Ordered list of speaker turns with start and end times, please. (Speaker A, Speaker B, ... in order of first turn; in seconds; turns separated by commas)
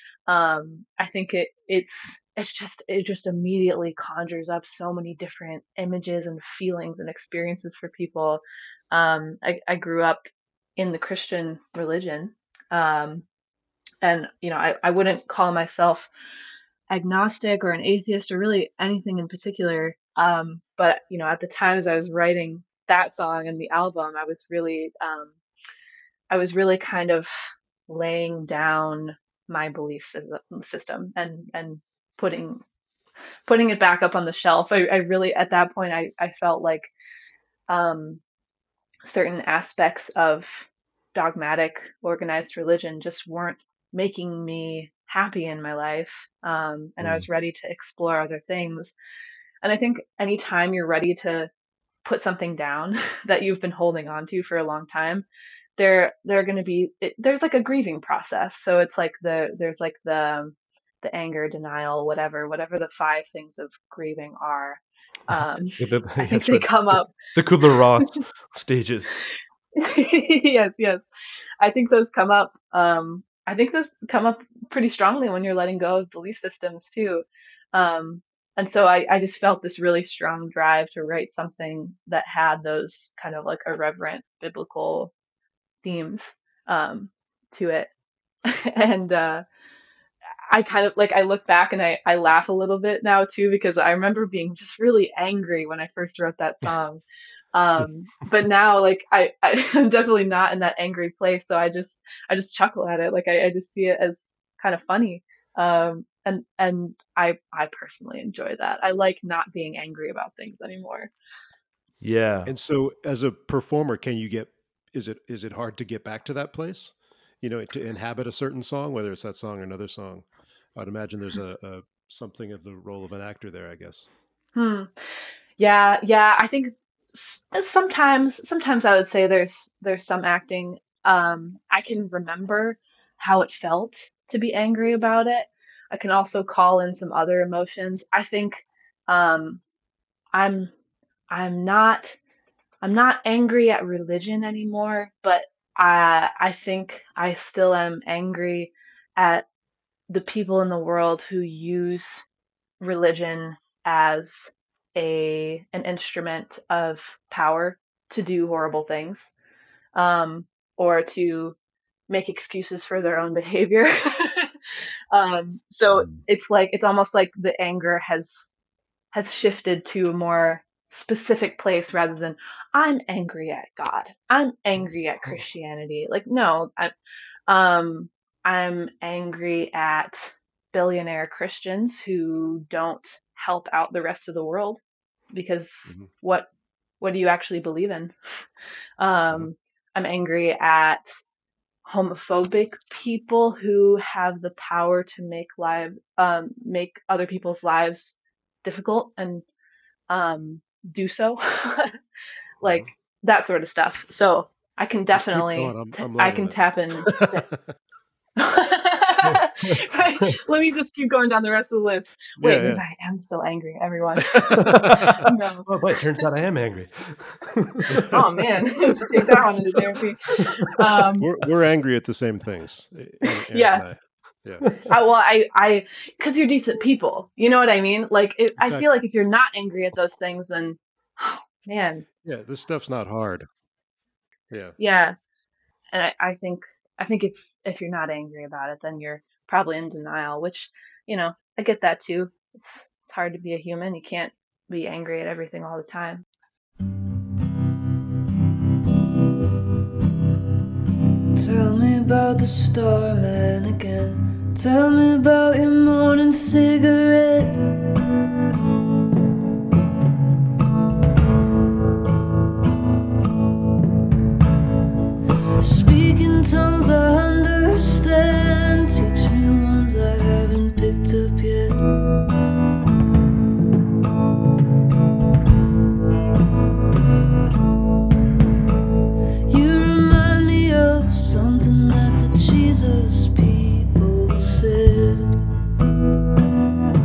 Speaker A: 0.3-13.2, Speaker A: 14.0-16.1, Speaker A: 16.9-25.3, Speaker A: 26.3-32.6, Speaker A: 33.5-36.9, Speaker A: 37.7-38.2, Speaker A: 39.0-48.9, Speaker A: 49.6-51.5, Speaker A: 52.0-55.2, Speaker A: 55.8-67.8, Speaker B: 65.8-69.1, Speaker A: 69.8-71.0, Speaker A: 71.6-85.1, Speaker A: 85.8-87.9, Speaker A: 88.4-89.4, Speaker A: 90.5-97.0, Speaker A: 97.5-111.1, Speaker B: 112.0-112.5, Speaker C: 112.4-124.1, Speaker A: 124.5-124.9, Speaker A: 125.6-139.6, Speaker A: 140.3-140.7, Speaker A: 141.3-142.2, Speaker A: 142.8-149.5, Speaker A: 150.1-152.2, Speaker A: 152.8-159.3, Speaker A: 159.9-161.6, Speaker A: 162.1-168.5, Speaker A: 169.1-176.9, Speaker A: 177.5-184.8, Speaker A: 185.3-186.5, Speaker A: 187.0-188.4, Speaker A: 189.0-191.2, Speaker A: 191.8-199.4, Speaker A: 200.1-202.0, Speaker A: 202.6-207.5, Speaker C: 205.1-207.6, Speaker A: 208.4-216.2, Speaker C: 212.4-212.8, Speaker C: 214.3-215.2, Speaker B: 214.6-218.6, Speaker A: 218.1-221.3, Speaker C: 221.2-224.7, Speaker A: 223.5-223.9, Speaker B: 224.6-224.9, Speaker A: 224.9-232.0, Speaker C: 228.6-228.9, Speaker C: 232.2-233.5, Speaker C: 234.5-234.8, Speaker A: 234.8-235.2, Speaker A: 235.9-246.2, Speaker D: 251.3-257.6, Speaker D: 265.6-271.8, Speaker D: 279.5-285.3